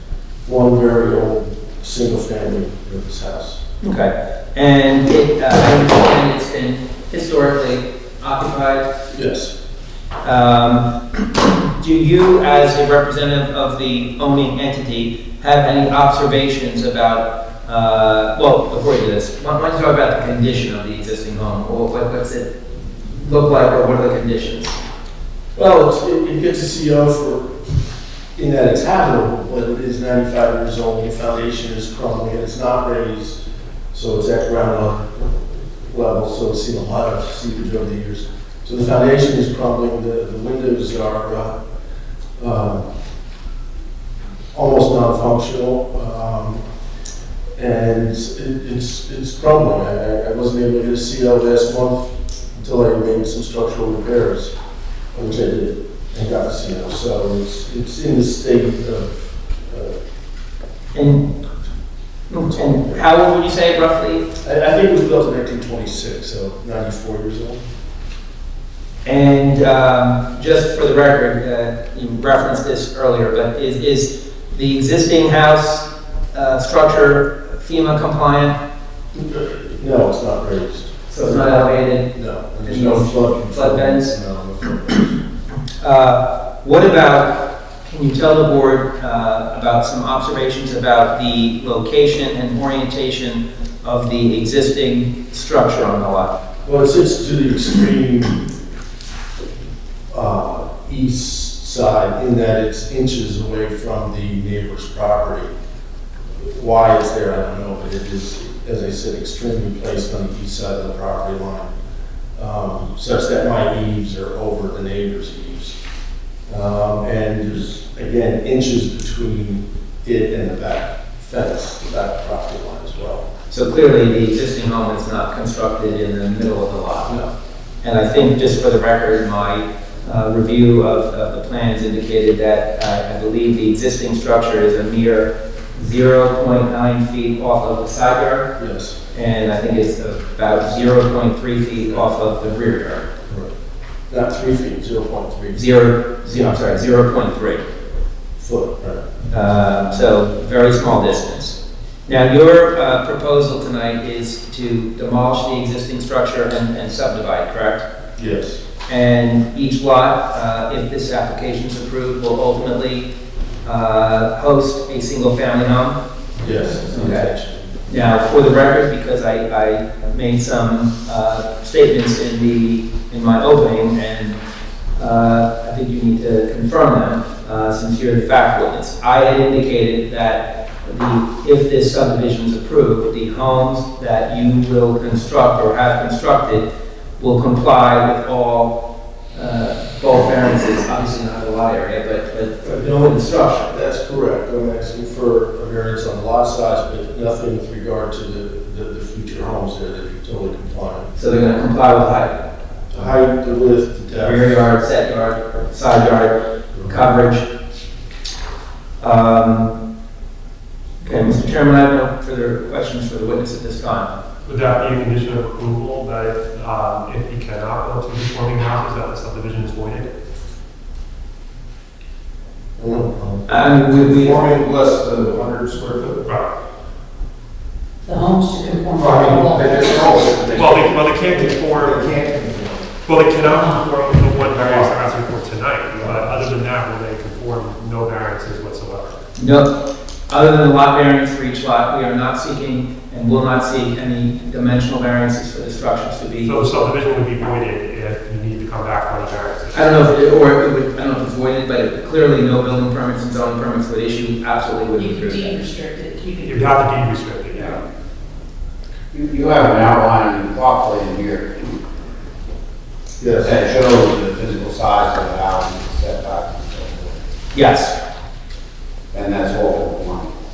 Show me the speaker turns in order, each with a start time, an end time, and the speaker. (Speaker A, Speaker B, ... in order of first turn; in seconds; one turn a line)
Speaker A: 0.4-3.6
Speaker B: 3.8-8.9
Speaker A: 9.1-9.5
Speaker B: 10.2-24.8
Speaker A: 25.6-27.5
Speaker A: 28.4-33.4
Speaker A: 33.9-41.5
Speaker A: 42.4-42.9
Speaker A: 44.5-46.6
Speaker A: 47.5-54.5
Speaker A: 55.1-60.0
Speaker B: 60.9-61.3
Speaker B: 62.3-64.2
Speaker A: 64.4-67.6
Speaker B: 69.0-78.5
Speaker A: 79.1-85.2
Speaker B: 81.1-82.1
Speaker B: 82.7-84.1
Speaker B: 85.8-96.3
Speaker A: 96.6-98.4
Speaker A: 100.1-105.5
Speaker A: 106.3-111.7
Speaker A: 112.3-115.8
Speaker A: 116.5-123.2
Speaker B: 123.5-127.2
Speaker B: 127.8-138.5
Speaker A: 138.6-139.0
Speaker B: 139.1-143.1
Speaker A: 144.1-145.7
Speaker B: 145.5-147.6
Speaker A: 148.4-149.0
Speaker B: 149.3-157.8
Speaker A: 158.2-158.6
Speaker B: 158.9-163.1
Speaker B: 163.6-166.0
Speaker A: 166.4-167.7
Speaker B: 166.9-167.3
Speaker B: 167.8-174.4
Speaker B: 174.9-186.7
Speaker B: 187.2-188.8
Speaker B: 189.3-193.7
Speaker A: 192.6-201.1
Speaker B: 201.1-202.4
Speaker A: 202.9-204.6
Speaker B: 204.2-207.5
Speaker B: 209.0-209.7
Speaker B: 211.0-214.1
Speaker C: 214.4-220.1
Speaker A: 222.8-223.4
Speaker B: 223.5-224.4
Speaker D: 223.8-226.2
Speaker C: 226.2-226.5
Speaker E: 228.0-230.2
Speaker D: 229.1-232.9
Speaker C: 230.5-232.1
Speaker C: 233.0-239.2
Speaker E: 233.4-233.8
Speaker D: 234.6-235.1
Speaker B: 239.4-239.8
Speaker B: 240.3-246.7
Speaker C: 246.4-250.2
Speaker B: 249.7-255.7
Speaker E: 254.9-256.7
Speaker C: 256.4-257.8
Speaker F: 259.1-261.8
Speaker A: 263.2-263.6
Speaker F: 263.4-267.1
Speaker B: 267.5-267.9
Speaker F: 269.1-270.3